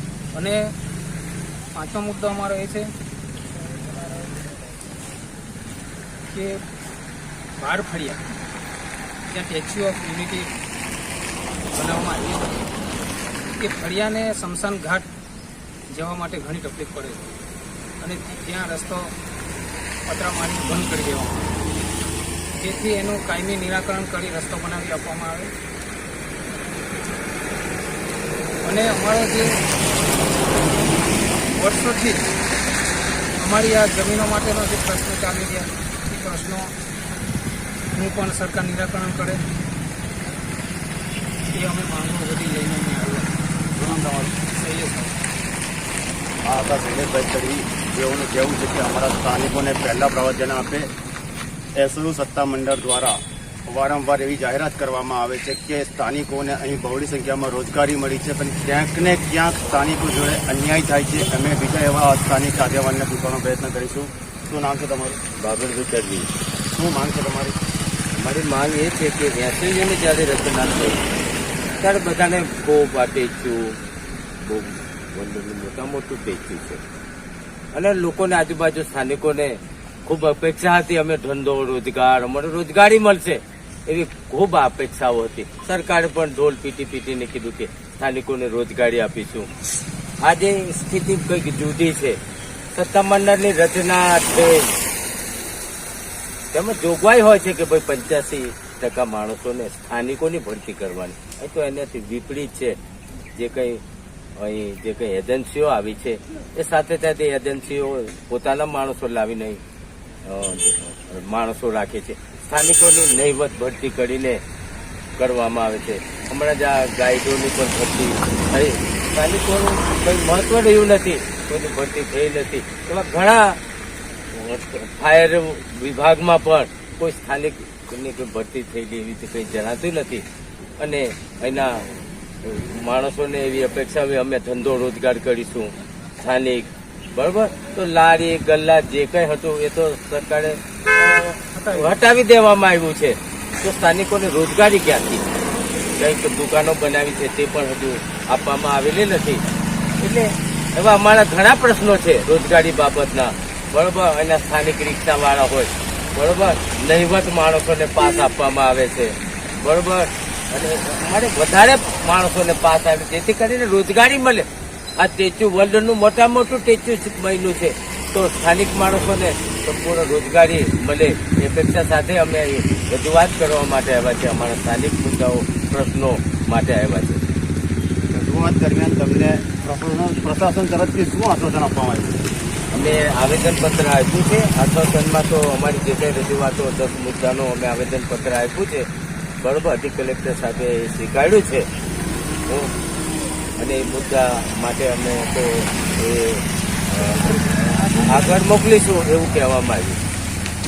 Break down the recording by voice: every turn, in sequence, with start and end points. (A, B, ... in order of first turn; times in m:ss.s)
0:00.3-0:00.7 A
0:01.7-0:02.9 A
0:06.3-0:06.6 A
0:07.6-0:08.2 A
0:09.3-0:10.5 A
0:11.7-0:12.7 A
0:13.6-0:15.1 A
0:15.9-0:17.3 A
0:18.0-0:19.1 A
0:20.1-0:21.5 A
0:22.5-0:25.5 A
0:28.6-0:29.6 A
0:31.5-0:32.3 A
0:33.4-0:36.7 A
0:37.9-0:39.4 A
0:41.5-0:43.3 A
0:43.7-0:44.3 B
0:44.4-0:45.1 A
0:46.4-0:50.9 B
0:51.8-1:05.2 B
1:05.4-1:06.3 C
1:06.7-1:07.6 B
1:08.2-1:11.0 C
1:11.8-1:13.8 C
1:14.4-1:16.8 C
1:17.7-1:29.5 C
1:30.2-1:32.2 C
1:32.7-1:34.7 C
1:36.5-1:42.8 C
1:43.4-1:43.8 C
1:44.4-1:49.6 C
1:50.2-1:54.4 C
1:55.2-2:03.6 C
2:04.3-2:10.2 C
2:10.8-2:11.8 C
2:12.4-2:25.2 C
2:21.5-2:22.0 A
2:26.0-2:29.4 C
2:30.0-2:57.2 C
2:58.1-3:02.2 B
3:02.7-3:08.9 C
3:09.4-3:11.6 C
3:12.5-3:12.7 C
3:13.6-3:20.0 C
3:17.3-3:18.2 A